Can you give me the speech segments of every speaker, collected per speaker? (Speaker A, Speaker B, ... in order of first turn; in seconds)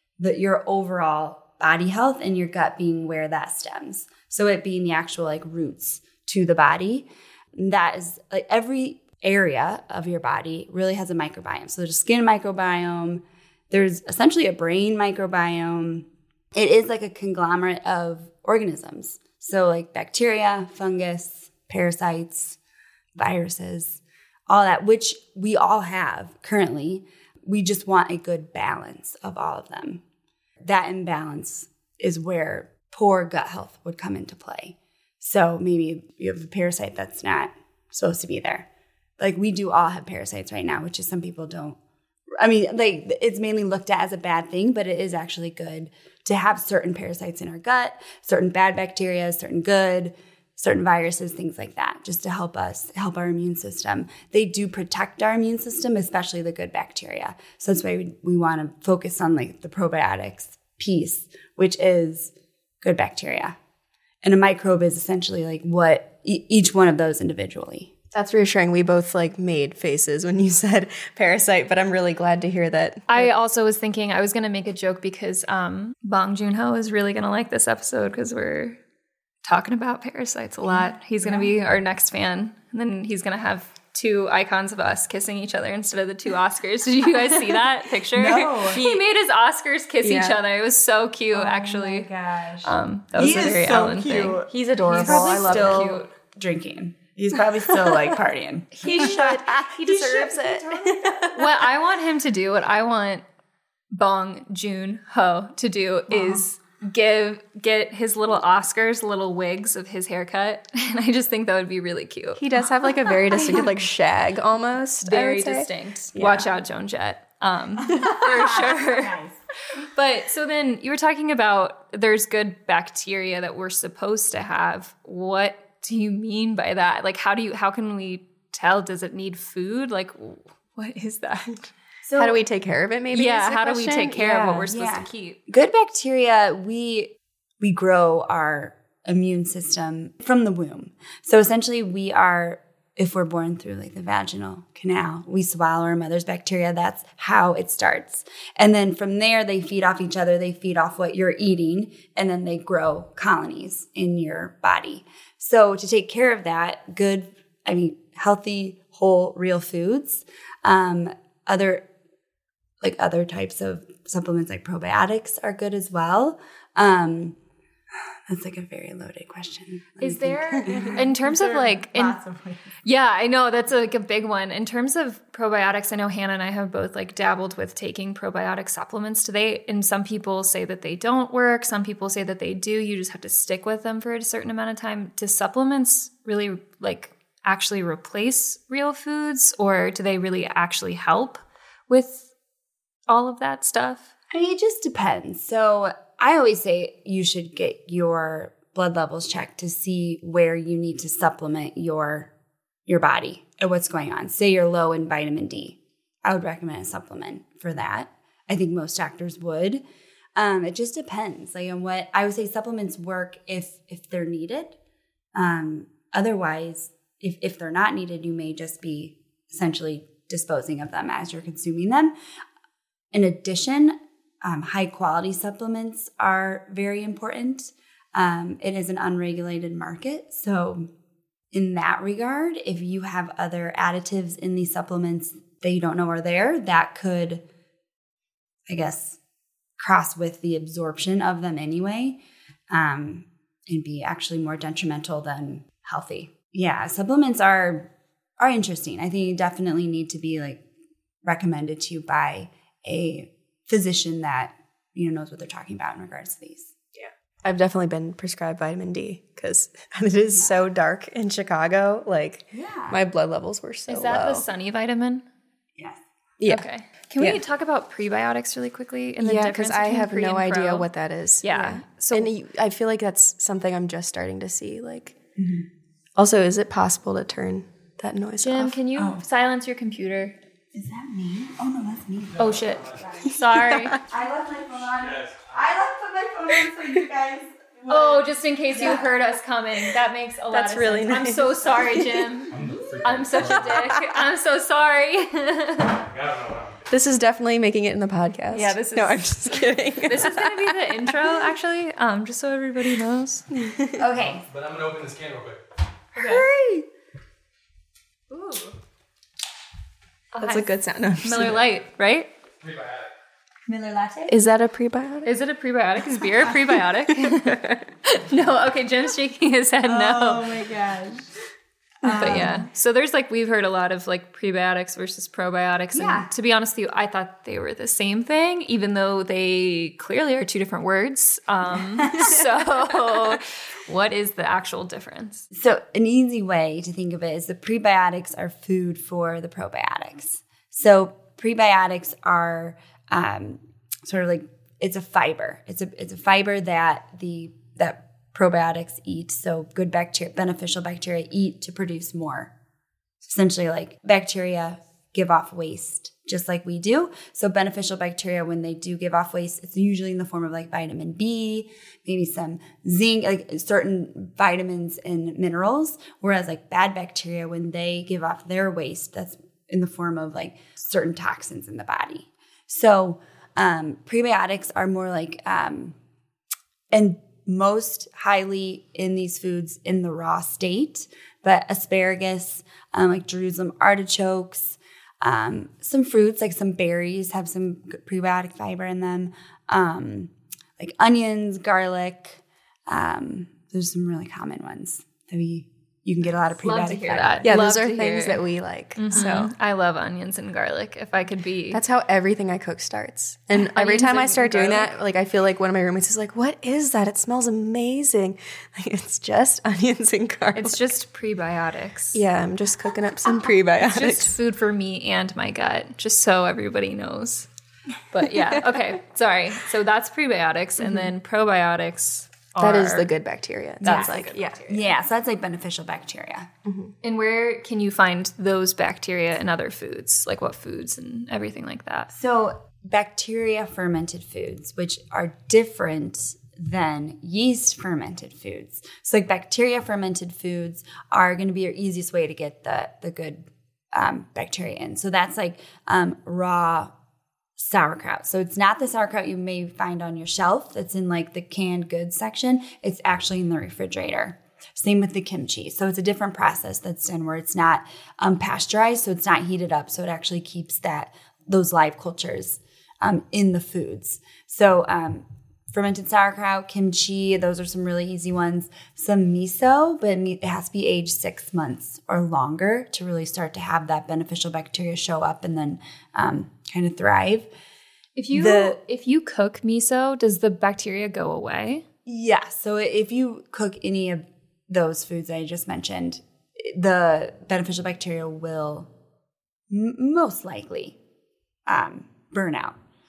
Speaker A: 0.2-22.6, 23.2-30.0, 30.6-38.7, 39.2-41.8, 42.4-63.5, 64.2-67.9, 80.7-81.5, 88.1-88.8, 91.3-93.8, 94.8-101.4, 106.1-106.4, 116.1-116.5, 117.8-119.4, 132.0-132.4, 134.3-161.8, 162.8-167.4, 168.3-172.7, 194.3-202.3, 202.9-209.8, 210.4-214.8, 215.3-222.1, 223.1-230.9, 231.5-237.4, 238.7-239.2, 239.8-242.2, 242.7-250.6, 251.2-256.7, 262.5-263.0, 275.4-275.6, 278.9-279.2, 280.7-283.3, 284.0-289.1, 303.9-304.4, 306.1-306.9, 313.7-314.3, 319.8-321.3, 322.0-322.6, 325.9-326.3, 331.9-332.4, 335.5-352.5, 353.2-375.9, 376.9-397.7, 423.8-426.5, 432.1-446.9, 447.6-477.5, 478.3-478.8, 482.1-488.9, 489.7-491.0, 491.7-492.8
Speaker B: 68.1-73.3, 88.7-89.0, 90.0-90.4, 93.2-96.0, 99.8-101.3, 112.3-115.7, 132.2-134.4, 256.9-264.5, 266.4-267.4, 269.2-275.1, 276.1-278.8, 283.3-283.9, 290.5-292.0, 296.9-301.2, 303.5-304.0, 310.4-311.6, 314.3-315.3, 316.7-317.9, 397.4-399.5, 401.7-410.8, 412.1-414.3, 418.3-418.8, 422.6-424.6, 426.7-426.9
Speaker C: 73.1-78.8, 79.4-92.1, 92.6-94.4, 95.3-96.0, 98.7-100.3, 101.3-103.2, 103.9-112.4, 113.3-113.7, 115.0-119.1, 119.8-131.7, 133.1-135.4, 170.0-172.2, 172.8-192.3, 193.1-194.1, 263.9-265.2, 266.5-270.9, 271.4-272.3, 278.4-280.4, 282.4-283.9, 287.9-296.1, 298.5-303.5, 306.2-306.4, 308.3-308.7, 310.3-312.3, 315.2-320.6, 322.0-335.4, 396.6-398.4, 399.0-401.8, 403.5-404.9, 410.5-412.2, 413.8-417.5, 418.1-423.1, 423.8-424.9, 427.0-432.1, 478.1-481.8
Speaker D: 285.1-285.5, 292.5-293.7, 296.1-296.8, 304.5-305.6, 312.7-313.0